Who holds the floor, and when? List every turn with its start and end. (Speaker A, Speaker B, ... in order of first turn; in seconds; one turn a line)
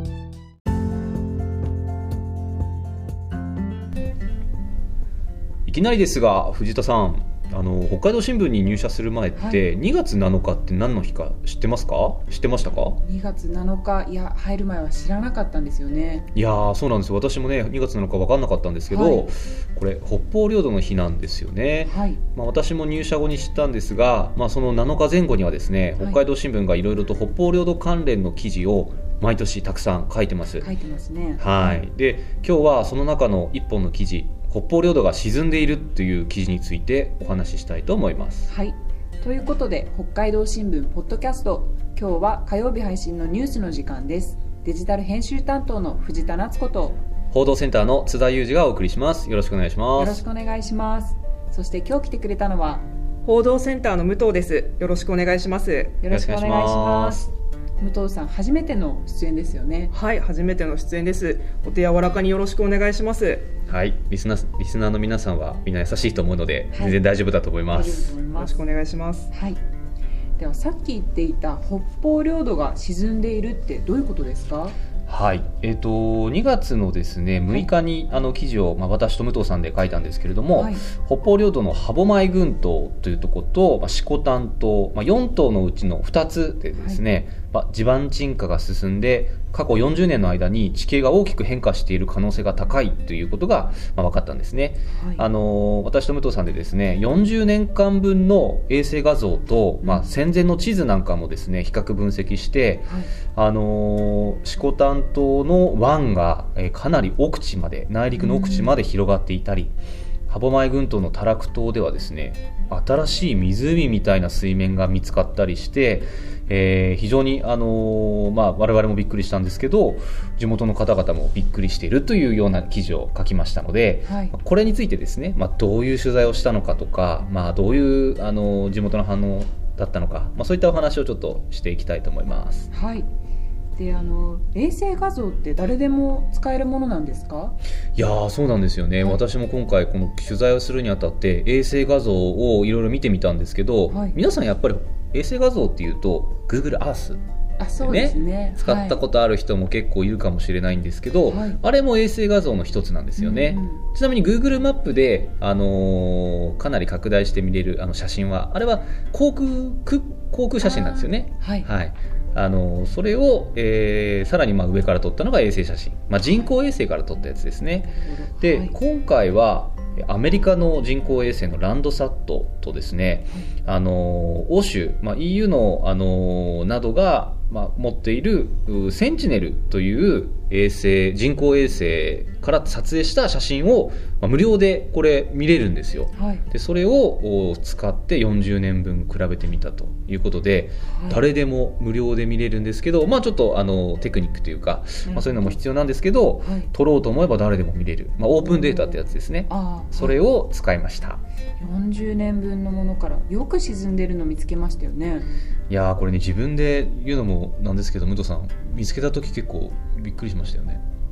Speaker A: 5.7-13.0
Speaker B: 9.3-9.7
Speaker B: 13.0-16.3
Speaker A: 16.3-30.7
Speaker B: 18.9-19.3
Speaker B: 21.9-22.2
Speaker B: 30.6-31.8
Speaker A: 31.4-38.5
Speaker B: 38.5-47.0
Speaker A: 47.3-50.2
Speaker B: 49.9-52.9
Speaker C: 53.2-56.0
Speaker B: 56.0-57.2
Speaker A: 56.1-57.3
Speaker B: 57.8-59.9
Speaker C: 59.9-63.5
Speaker A: 63.7-68.2
Speaker B: 66.7-67.0
Speaker B: 67.7-68.6
Speaker C: 68.3-69.3
Speaker B: 69.3-69.6
Speaker B: 70.4-74.8
Speaker A: 75.1-109.8
Speaker B: 80.5-80.9
Speaker B: 86.8-87.0
Speaker B: 94.9-95.3
Speaker B: 99.8-100.1
Speaker B: 102.8-103.1
Speaker B: 108.2-108.7
Speaker A: 110.3-132.7
Speaker B: 124.0-124.3
Speaker B: 132.7-133.1
Speaker B: 133.7-137.6
Speaker A: 137.9-147.2
Speaker B: 143.9-144.2
Speaker B: 147.6-149.0
Speaker A: 147.8-201.2
Speaker B: 151.2-151.6
Speaker B: 153.2-153.8
Speaker B: 160.6-161.7
Speaker B: 167.8-168.7
Speaker B: 186.1-186.4
Speaker B: 190.8-191.2
Speaker B: 195.1-195.6
Speaker B: 196.4-196.7
Speaker B: 198.4-200.2
Speaker B: 201.6-205.3
Speaker A: 205.7-210.8